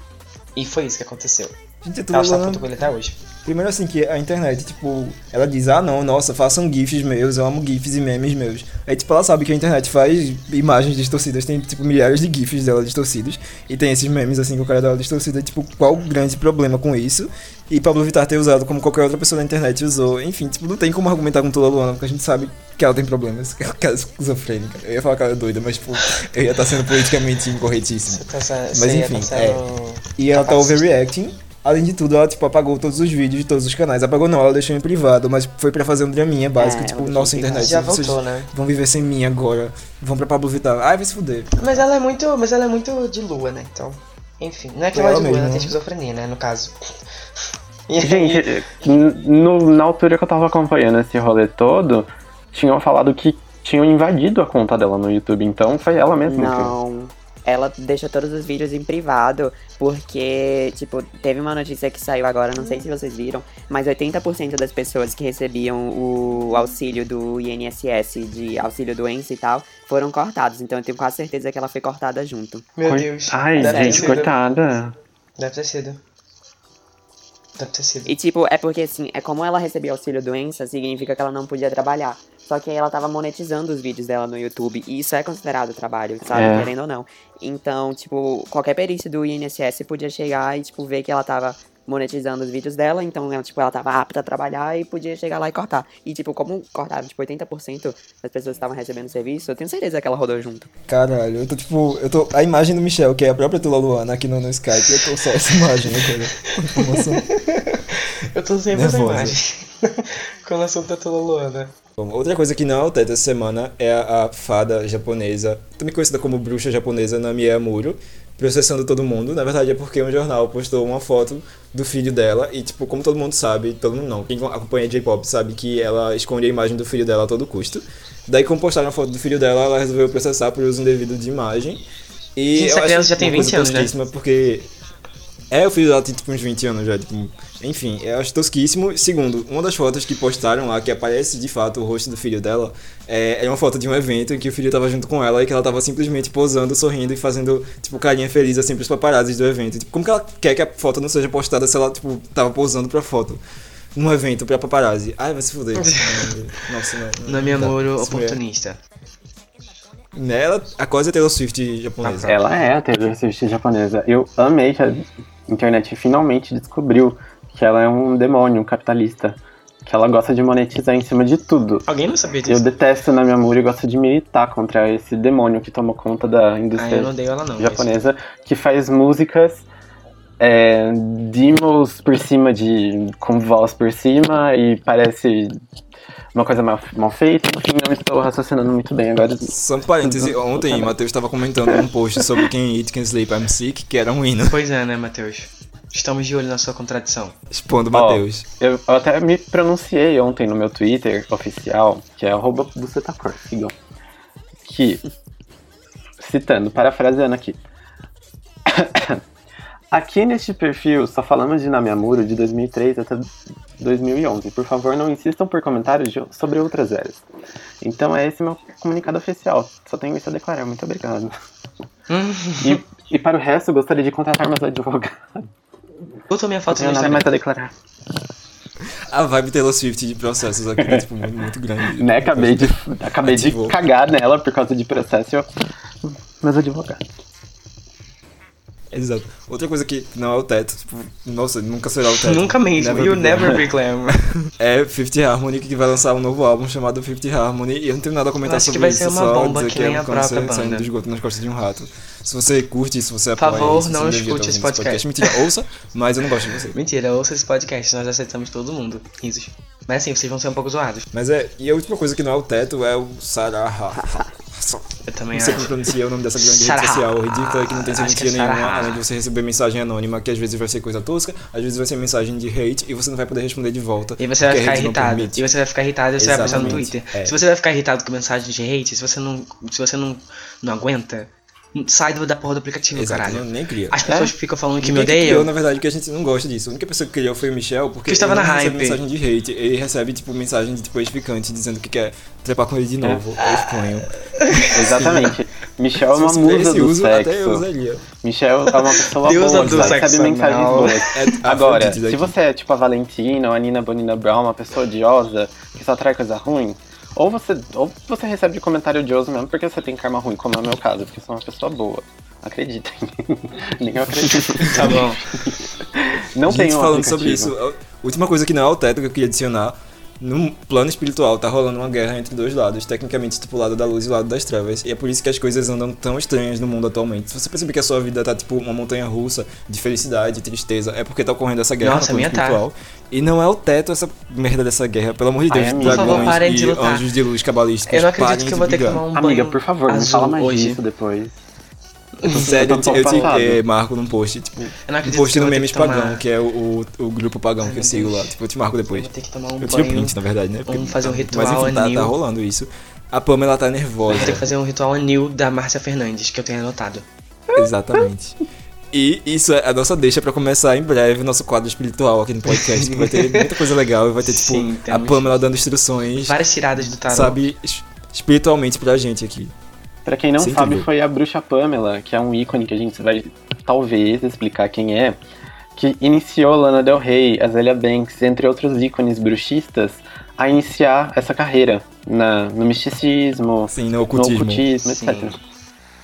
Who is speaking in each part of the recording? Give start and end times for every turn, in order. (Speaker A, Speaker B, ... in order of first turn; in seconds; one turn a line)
Speaker A: 0.5-1.5
Speaker B: 1.8-2.6
Speaker A: 2.1-3.2
Speaker B: 3.4-29.6
Speaker A: 28.1-30.8
Speaker B: 30.2-41.8
Speaker C: 36.6-37.8
Speaker A: 37.6-38.5
Speaker A: 41.6-46.8
Speaker B: 44.9-45.7
Speaker A: 47.9-48.5
Speaker D: 48.0-56.7
Speaker C: 56.3-72.7
Speaker A: 72.8-74.3
Speaker D: 72.8-74.9
Speaker C: 73.6-74.2
Speaker A: 75.4-76.0
Speaker A: 77.6-78.1
Speaker C: 78.1-100.7
Speaker D: 86.3-86.7
Speaker B: 100.9-107.2
Speaker A: 106.8-111.7
Speaker B: 108.7-109.4
Speaker B: 112.0-131.8
Speaker B: 132.3-134.7
Speaker A: 132.5-133.9
Speaker B: 135.5-153.4
Speaker B: 153.9-158.4
Speaker A: 155.9-156.3
Speaker A: 157.2-158.8
Speaker B: 160.1-162.4
Speaker A: 162.0-162.3
Speaker D: 162.2-171.8
Speaker A: 171.9-172.7
Speaker D: 172.4-179.7
Speaker A: 176.8-177.9
Speaker D: 180.4-185.6
Speaker D: 186.3-190.9
Speaker B: 189.4-194.6
Speaker A: 194.5-197.3
Speaker B: 197.5-198.4
Speaker D: 197.9-203.7
Speaker D: 204.6-205.0
Speaker D: 206.2-207.6
Speaker D: 208.7-209.2
Speaker D: 209.9-217.2
Speaker D: 217.8-221.3
Speaker A: 222.1-222.8
Speaker D: 222.6-225.5
Speaker A: 226.3-227.3
Speaker D: 226.7-227.7
Speaker B: 229.1-233.8
Speaker D: 230.8-231.3
Speaker D: 231.8-235.4
Speaker D: 236.0-237.0
Speaker B: 238.9-243.6
Speaker A: 242.1-244.2
Speaker B: 244.6-256.7
Speaker A: 248.4-250.9
Speaker A: 253.4-255.4
Speaker A: 256.7-261.1
Speaker B: 261.1-275.4
Speaker A: 265.0-265.8
Speaker A: 266.4-269.0
Speaker A: 274.2-285.5
Speaker B: 276.2-277.4
Speaker B: 282.9-284.0
Speaker B: 284.8-295.3
Speaker A: 288.1-289.0
Speaker A: 293.4-295.2
Speaker D: 294.7-297.6
Speaker B: 296.1-298.0
Speaker D: 298.2-317.5
Speaker A: 298.7-301.4
Speaker B: 299.5-300.0
Speaker B: 301.1-302.3
Speaker A: 314.5-315.2
Speaker B: 316.4-339.0
Speaker A: 331.8-332.6
Speaker D: 335.5-336.4
Speaker A: 335.8-337.1
Speaker A: 337.9-340.8
Speaker D: 339.1-341.3
Speaker A: 342.2-343.4
Speaker B: 342.3-349.1
Speaker D: 342.3-343.6
Speaker A: 344.9-346.2
Speaker A: 347.6-348.4
Speaker A: 348.9-350.1
Speaker B: 349.6-354.5
Speaker A: 350.7-352.1
Speaker A: 354.1-357.0
Speaker B: 357.5-358.4
Speaker B: 358.9-366.4
Speaker A: 362.5-363.5
Speaker A: 364.2-365.4
Speaker A: 366.1-367.4
Speaker B: 367.1-369.5
Speaker D: 370.0-375.2
Speaker B: 370.4-370.9
Speaker D: 375.8-385.4
Speaker B: 383.7-384.6
Speaker A: 384.8-385.4